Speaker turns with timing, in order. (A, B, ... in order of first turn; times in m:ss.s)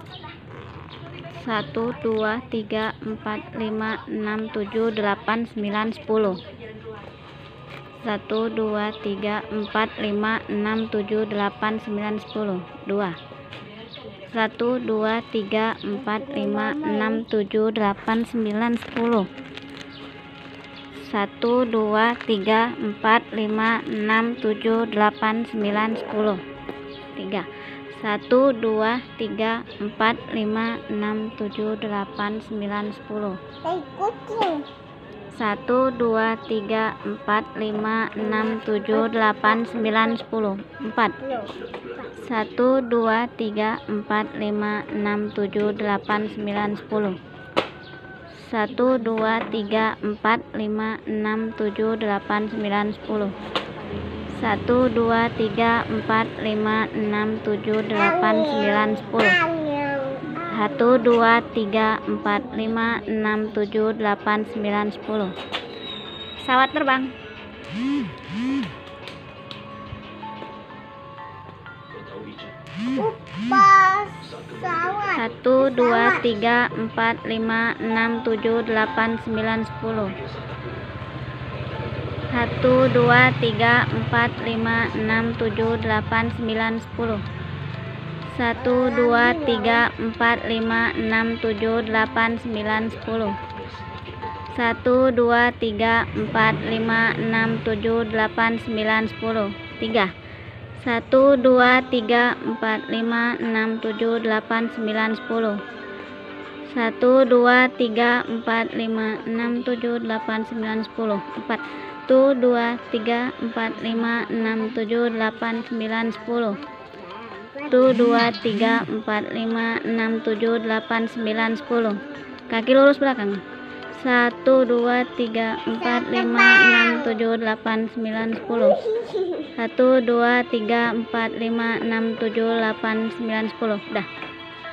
0:01.3-0:06.4 A
0:08.0-0:13.2 A
0:14.3-0:19.3 A
0:15.9-0:17.2 B
0:21.0-0:26.4 A
0:27.2-0:33.4 A
0:33.6-0:34.7 B
0:35.3-0:41.2 A
0:38.3-0:40.0 B
0:41.2-0:42.1 B
0:42.2-0:47.2 A
0:48.4-0:53.4 A
0:54.4-0:59.4 A
0:57.9-1:01.1 B
1:00.5-1:05.3 A
1:06.4-1:07.1 A
1:13.0-1:16.3 B
1:15.1-1:20.2 A
1:22.3-1:27.2 A
1:28.3-1:33.4 A
1:28.6-1:29.8 B
1:34.5-1:40.1 A
1:40.8-1:45.6 A
1:46.7-1:56.6 A
1:57.0-1:57.9 B
1:57.7-2:03.4 A
2:03.9-2:08.8 A
2:05.7-2:07.2 B
2:08.4-2:09.5 B
2:09.6-2:14.1 A